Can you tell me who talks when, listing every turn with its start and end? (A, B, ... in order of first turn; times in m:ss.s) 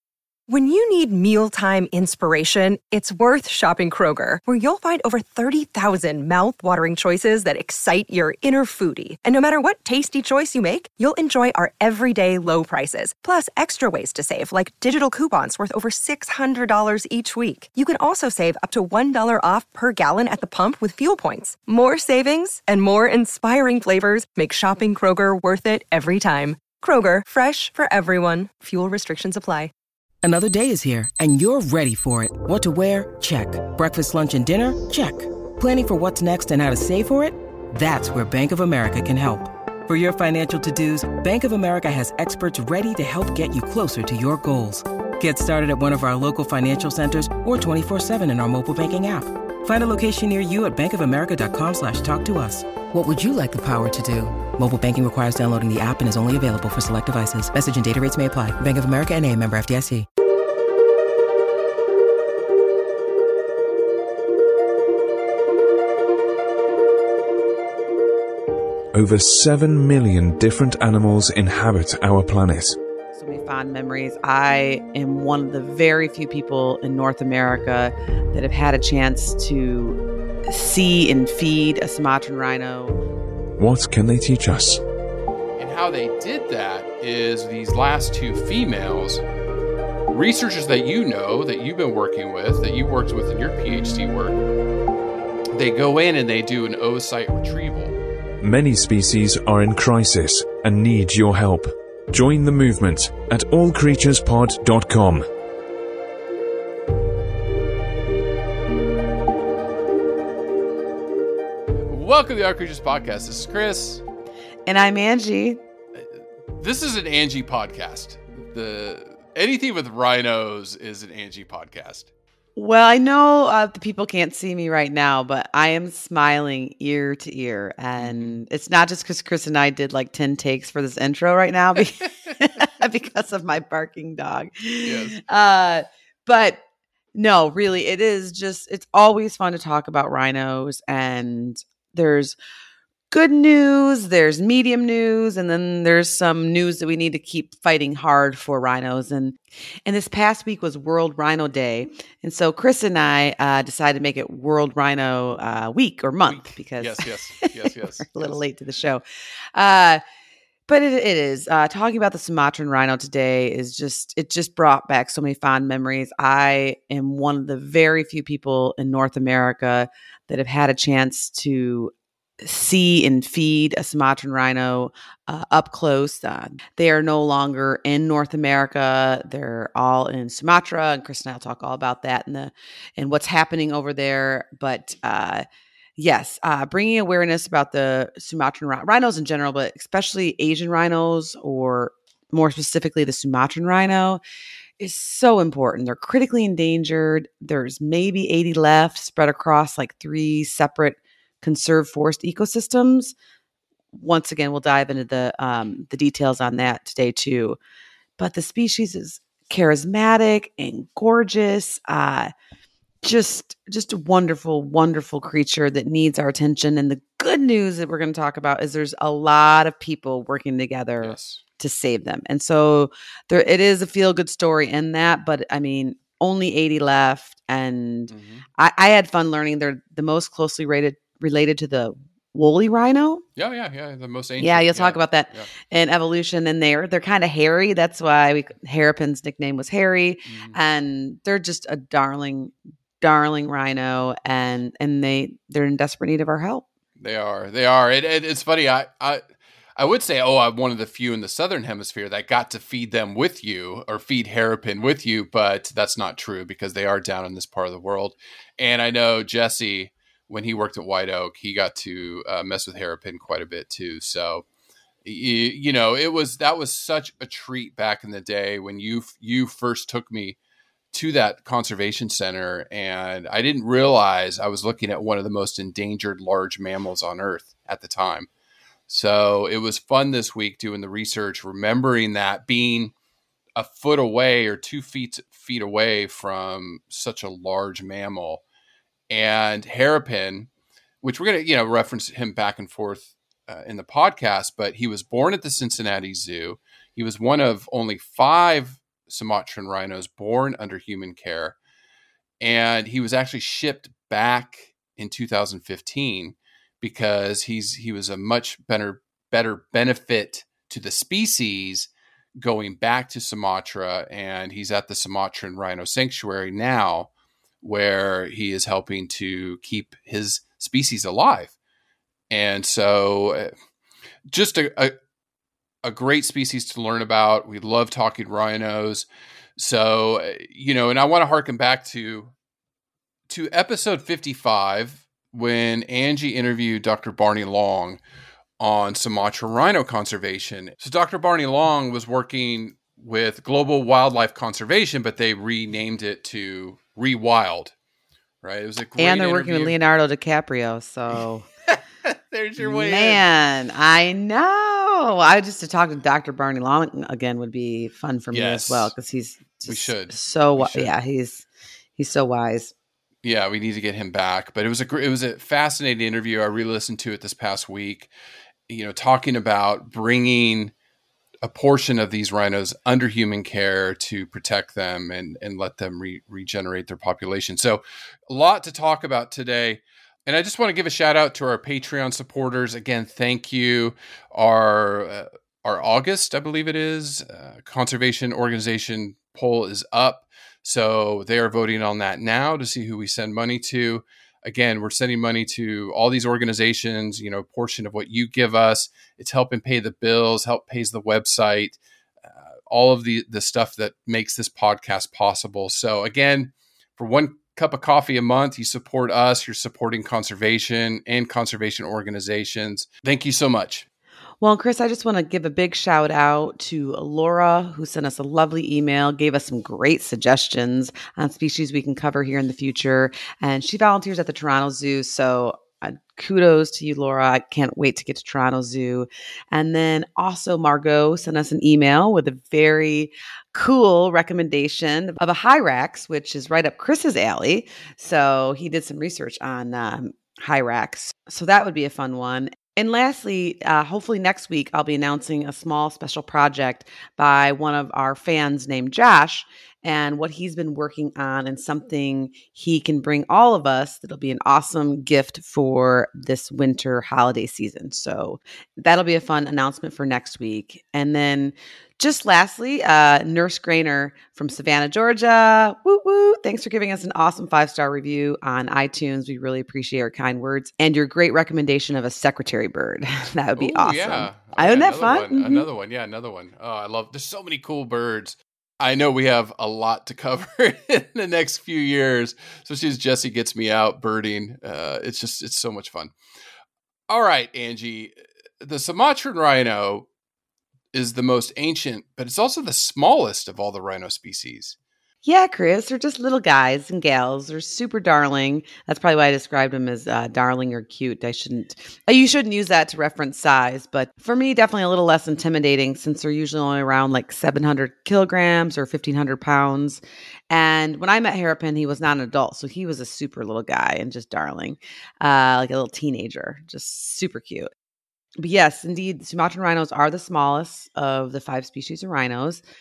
0:00.5-0:29.7 A
0:30.2-1:00.0 B
1:08.9-1:12.8 C
1:13.1-1:23.0 D
1:23.6-1:24.8 C
1:25.6-1:29.2 E
1:30.1-1:34.4 E
1:35.5-1:38.0 E
1:38.4-1:45.2 C
1:51.8-1:54.0 E
1:54.6-1:55.6 D
1:56.0-2:02.1 E
2:02.6-2:16.6 D
2:08.0-2:08.4 E
2:14.8-2:15.2 E
2:17.1-2:22.4 D
2:23.1-2:39.0 D
2:36.3-2:38.4 E
2:39.5-2:40.0 D
2:40.7-3:05.4 D
3:06.0-3:14.2 D
3:14.8-3:23.1 D
3:23.9-3:27.6 D
3:28.2-3:32.3 D
3:33.0-3:53.2 D
3:41.0-3:41.4 E
3:48.1-3:48.4 E
3:53.4-3:55.5 E
3:54.4-4:06.6 D
4:00.2-4:00.6 E
4:07.0-4:09.2 E
4:09.8-4:24.4 E
4:25.0-4:30.4 E
4:30.9-4:38.3 E
4:38.9-4:42.9 E
4:43.6-4:48.4 E
4:49.1-4:50.5 E
4:51.0-5:01.6 E
5:02.4-5:17.1 E
5:17.6-5:21.5 E
5:22.3-5:23.5 E
5:24.3-5:24.9 E
5:25.8-5:32.3 E
5:33.3-5:38.0 E
5:38.6-5:47.7 E
5:48.4-5:49.8 E
5:49.0-5:51.4 D
5:51.7-5:53.2 E
5:52.6-6:01.4 D
5:58.3-5:58.9 E
5:59.6-6:00.9 E
6:02.0-6:02.7 D
6:03.2-6:08.1 E
6:08.7-6:10.7 E
6:11.4-6:41.8 E
6:42.3-6:53.8 E
6:54.4-7:55.7 D
7:53.6-8:06.1 E
8:07.1-8:10.1 E
8:10.9-8:14.8 E
8:15.2-8:37.7 D
8:38.4-8:42.6 D